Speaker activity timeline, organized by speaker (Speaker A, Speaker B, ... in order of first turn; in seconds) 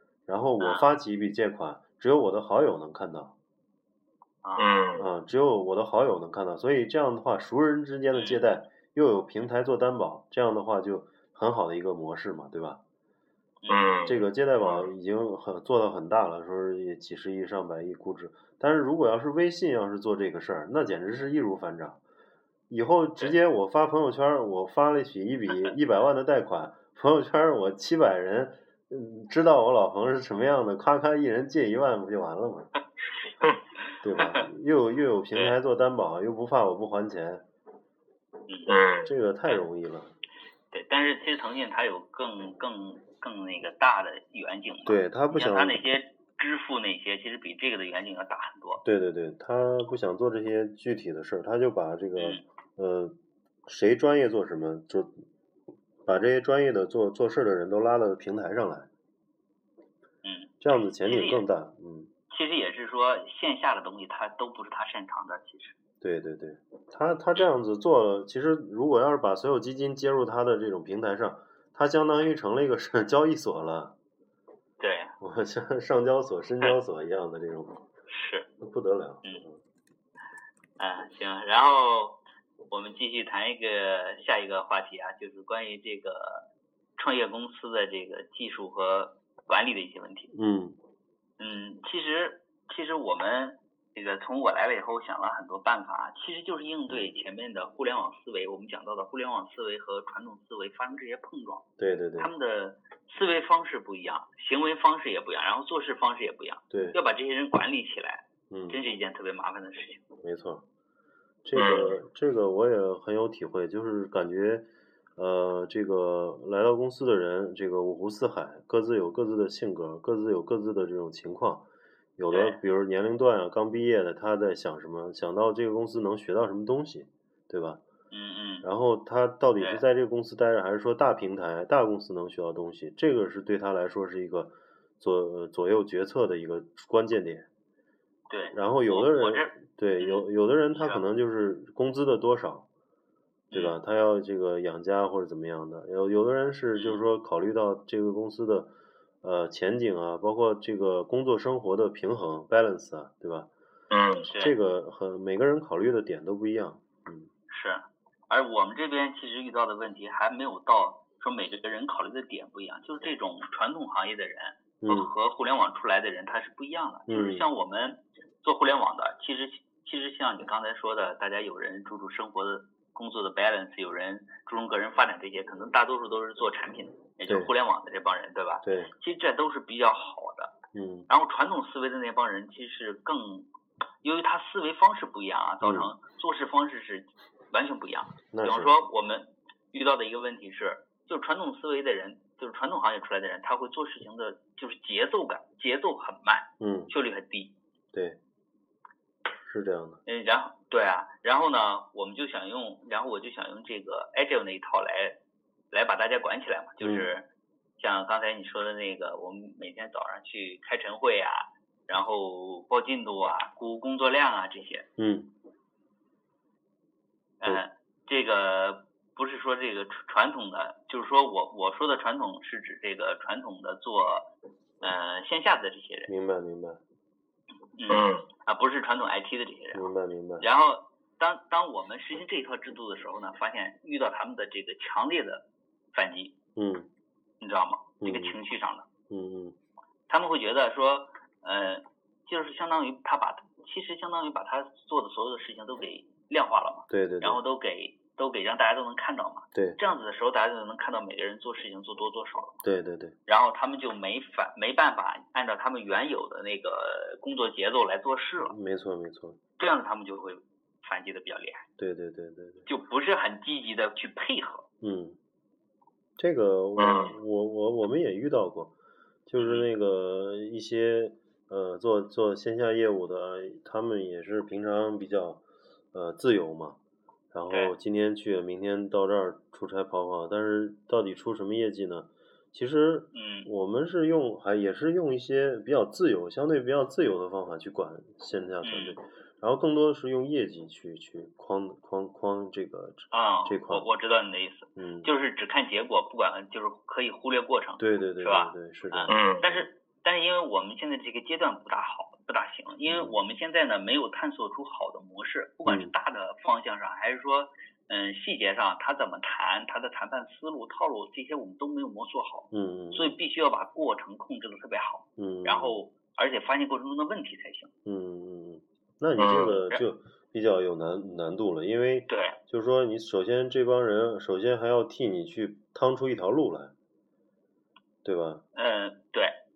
Speaker A: 0.3-3.3, 5.0-12.8, 14.1-22.0, 22.7-32.7, 34.0-37.5, 39.0-40.1, 44.9-45.8, 48.8-53.1, 53.7-55.2, 56.1-58.9, 60.6-62.1, 66.0-74.0, 75.2-77.9, 78.6-79.6, 90.3-90.8, 96.9-97.2, 101.8-102.3, 106.7-107.0, 108.5-108.8, 110.2-110.6, 111.5-127.8, 128.6-137.5, 138.5-142.7, 143.5-153.5, 154.4-157.3, 164.8-165.1, 167.1-167.5, 178.6-178.9, 180.7-181.1, 185.6-185.9, 188.3-188.7, 196.6-196.9, 197.9-198.2, 199.4-200.0, 206.8-207.1, 215.0-215.3, 226.1-226.8, 229.7-230.5, 236.6-236.9, 238.0-238.4, 239.1-239.6, 246.9-247.4, 249.5-249.8, 252.6-253.2, 258.5-259.4, 261.8-262.7, 264.8-265.2, 266.2-268.8, 269.3-275.4, 275.9-276.8, 277.3-293.9, 294.8-295.1, 297.8-299.7, 302.9-303.2, 305.7-305.9, 312.5-313.2, 315.2-315.8, 317.9-326.7, 328.0-328.4
Speaker B: 0.6-0.9, 4.4-4.9, 8.1-8.4, 13.6-14.1, 34.2-34.5, 38.5-38.8, 40.7-48.8, 52.2-52.4, 60.2-61.4, 62.3-65.8, 74.8-75.2, 78.1-78.5, 80.8-86.5, 87.0-90.3, 91.4-101.7, 102.2-110.0, 122.3-122.6, 128.1-128.7, 129.6-129.8, 138.3-141.0, 143.5-143.8, 146.8-147.0, 154.2-154.6, 157.5-180.5, 181.1-183.5, 184.0-197.5, 200.1-205.2, 205.7-207.3, 207.8-214.9, 217.4-224.3, 224.8-226.1, 227.8-229.9, 230.4-236.3, 237.4-238.9, 240.1-252.6, 253.3-258.6, 259.6-261.6, 262.7-264.7, 269.4-269.7, 277.5-277.8, 283.1-283.5, 288.6-289.0, 293.1-317.7, 322.1-322.4, 328.6-329.4
Speaker C: 4.6-5.1, 13.7-14.9, 38.7-39.1, 111.6-112.0, 153.9-154.3, 227.9-228.2, 266.8-267.2, 299.1-299.5, 319.2-319.6